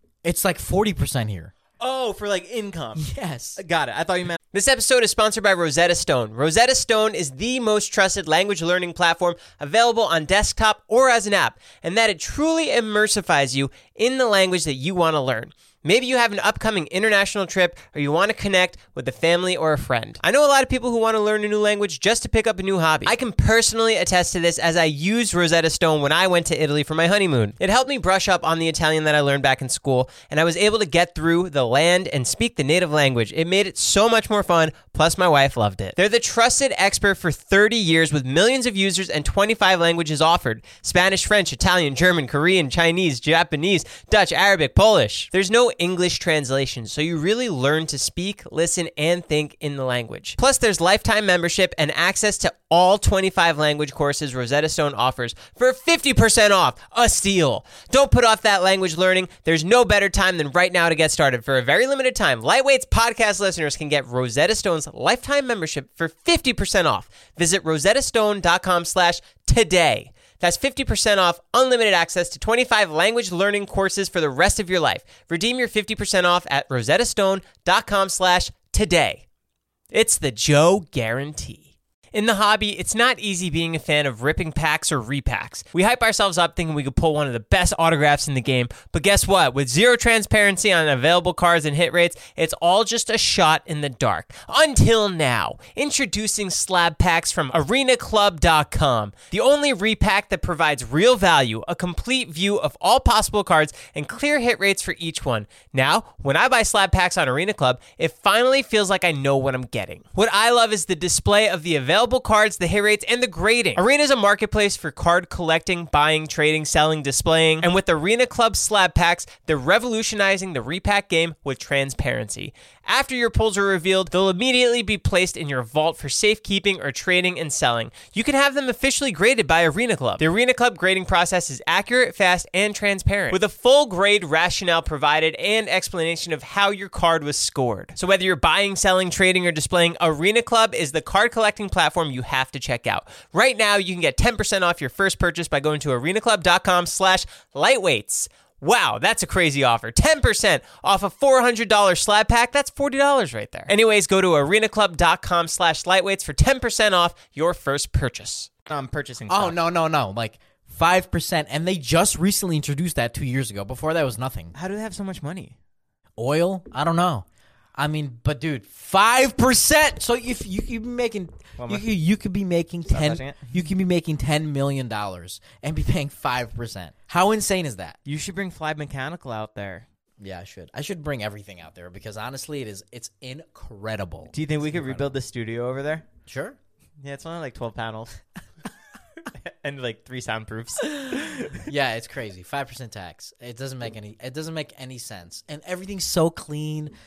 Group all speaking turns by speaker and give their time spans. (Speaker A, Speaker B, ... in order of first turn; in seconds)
Speaker A: 0.2-1.5, 3.0-3.6, 159.3-164.5, 166.2-178.0, 180.2-185.2, 186.3-186.6, 191.6-196.9
Speaker B: 1.8-3.0, 3.6-4.4, 158.7-159.6, 164.5-165.5, 171.6-171.8, 172.9-173.5, 178.1-179.8, 184.3-186.1, 187.0-188.2, 189.3-191.7
Speaker C: 4.5-79.2, 79.9-158.5